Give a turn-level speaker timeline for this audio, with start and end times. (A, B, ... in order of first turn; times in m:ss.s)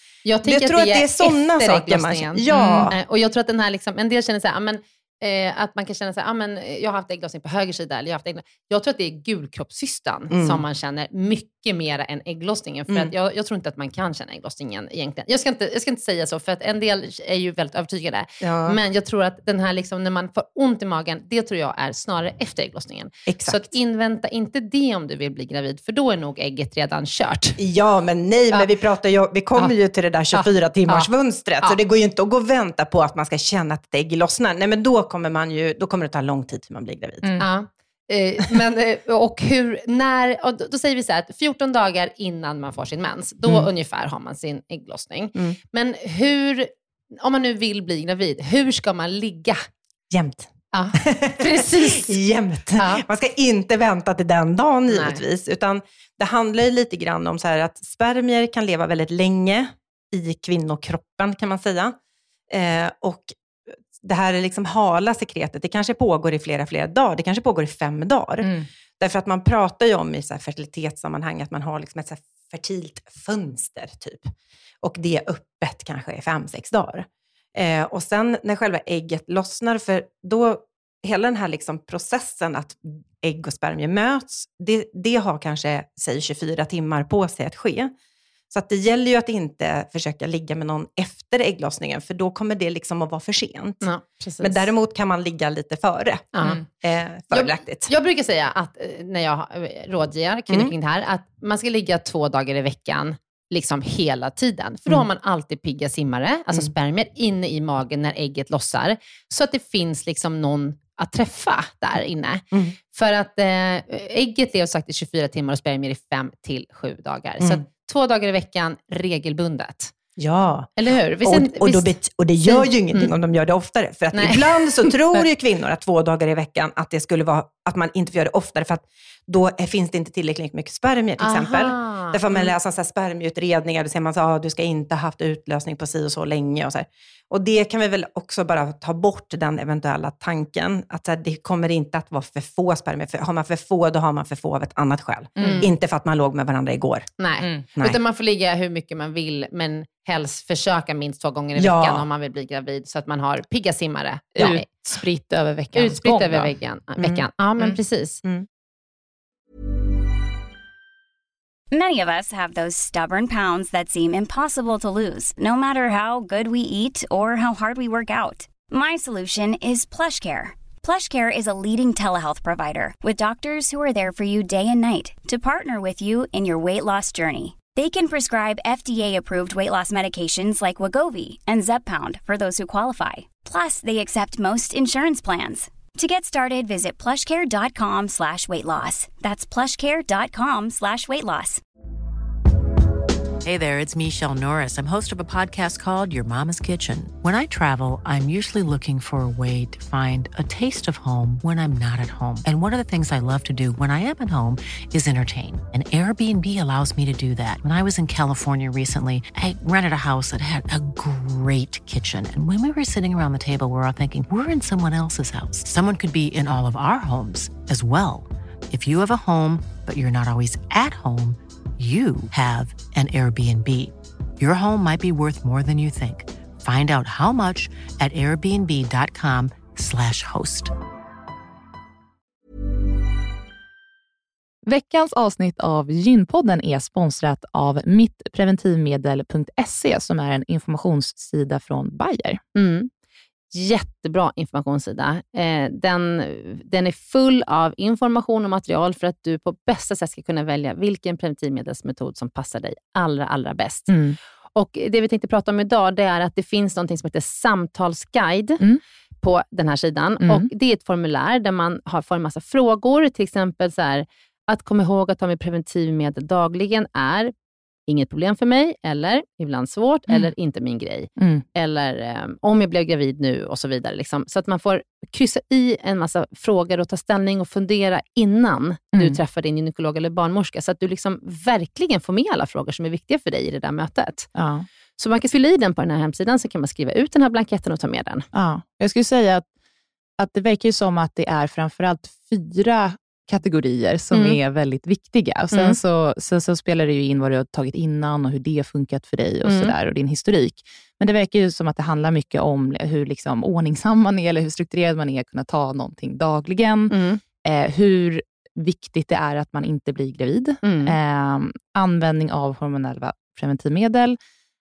0:00.2-0:27.6 A
0:00.4-0:03.0 B
0:02.5-0:02.9 C
0:10.3-0:10.6 B
0:18.4-0:18.8 B
0:23.3-0:23.7 B
0:27.6-0:37.3 B
0:30.3-0:31.1 A
0:37.2-0:37.5 C
0:37.4-0:49.6 A
0:43.4-0:43.7 B
0:50.1-1:02.0 B
0:50.7-0:52.2 A
0:52.8-0:53.0 A
0:54.9-0:55.2 A
1:02.5-1:03.4 B
1:03.9-1:27.9 B
1:08.4-1:08.7 C
1:28.5-1:33.9 B
1:33.8-1:34.6 A
1:34.4-1:37.9 B
1:36.3-1:36.7 A
1:37.3-1:59.9 A
1:57.4-1:57.6 B
2:00.2-2:00.7 B
2:00.8-2:01.9 A
2:01.2-2:27.1 B
2:02.4-2:03.1 A
2:04.1-2:05.0 A
2:11.2-2:12.5 A
2:25.4-2:25.7 C
2:25.4-2:25.7 A
2:27.2-2:34.7 A
2:27.4-2:27.6 C
2:31.5-2:32.1 B
2:34.4-2:36.5 C
2:35.7-2:38.2 A
2:37.0-2:37.2 B
2:41.7-3:11.6 D
3:13.4-3:50.7 E
3:54.6-4:02.4 C
4:02.5-4:02.9 A
4:03.5-4:13.9 A
4:13.9-4:14.2 C
4:14.5-4:18.6 A
4:19.2-4:27.3 A
4:20.2-4:20.5 C
4:27.9-4:44.3 A
4:31.2-4:31.4 C
4:38.9-4:39.2 C
4:44.3-4:44.6 C
4:45.0-4:48.2 A
4:48.3-4:49.4 C
4:50.2-5:14.2 C
4:54.1-4:54.4 A
4:55.5-4:55.8 A
4:59.4-4:59.7 A
5:06.9-5:07.2 A
5:10.6-5:11.0 A